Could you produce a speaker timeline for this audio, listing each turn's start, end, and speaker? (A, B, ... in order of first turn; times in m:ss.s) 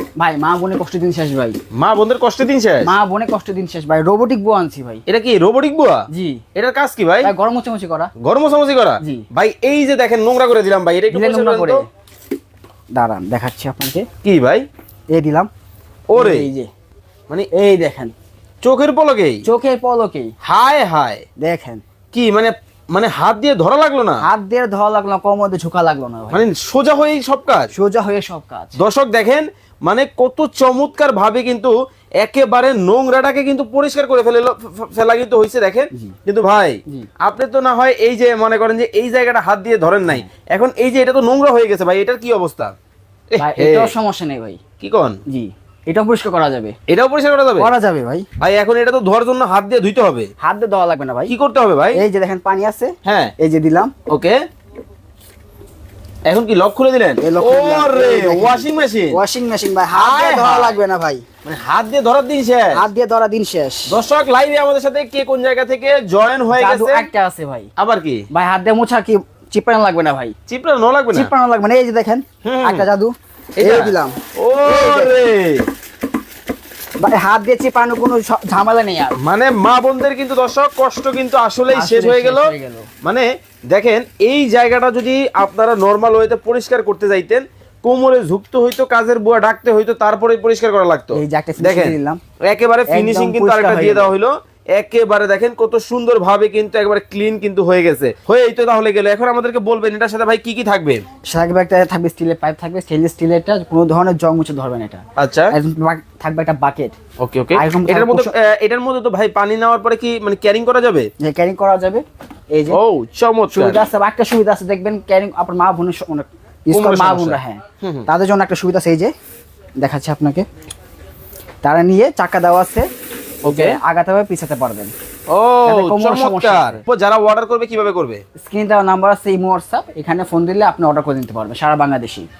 0:00.2-0:01.6 A
0:01.8-0:02.9 B
0:02.8-0:05.0 A
0:05.1-0:07.3 B
0:06.1-0:06.4 A
0:07.2-0:08.1 A
0:08.2-0:11.8 B
0:11.1-0:11.8 A
0:12.9-0:14.1 A
0:14.2-0:14.6 B
0:15.1-0:15.5 A
0:16.1-0:16.5 B
0:16.2-0:16.7 A
0:17.5-0:18.1 A
0:18.6-0:19.4 B
0:19.4-0:20.3 A
0:20.4-0:21.2 B
0:21.4-0:21.8 A
0:22.1-0:24.2 B
0:24.2-0:26.4 A
0:26.3-0:27.7 B
0:27.7-0:28.8 A
0:28.8-0:42.7 B
0:43.3-0:43.9 B
0:43.4-0:44.6 A
0:44.8-0:45.2 B
0:45.3-0:46.8 A
0:46.9-0:47.7 B
0:47.6-0:48.3 A
0:48.4-0:50.3 B
0:50.4-0:51.3 A
0:51.3-0:52.0 B
0:51.9-0:53.9 A
0:53.0-0:53.3 B
0:54.1-0:54.4 B
0:56.3-0:59.2 B
0:57.2-1:01.2 A
0:59.9-1:00.8 B
1:01.4-1:02.8 B
1:02.7-1:03.9 A
1:03.9-1:07.1 B
1:06.5-1:07.7 A
1:07.8-1:08.3 B
1:08.3-1:10.3 A
1:10.5-1:11.3 B
1:11.1-1:15.2 A
1:12.4-1:12.8 B
1:13.6-1:15.6 B
1:17.0-1:19.2 A
1:19.2-1:41.0 B
1:21.7-1:22.9 A
1:31.1-1:32.2 A
1:32.9-1:34.1 A
1:41.3-1:46.9 A
1:45.2-1:45.5 B
1:47.2-1:51.1 B
1:47.5-1:48.4 A
1:51.2-1:52.8 A
1:52.7-1:53.8 B
1:53.5-1:59.1 A
1:56.7-1:58.1 B
1:59.8-2:00.4 A
2:01.6-2:02.9 A
2:03.4-2:04.9 A
2:03.4-2:03.8 B
2:05.3-2:08.2 B
2:05.6-2:06.8 A
2:08.4-2:12.3 A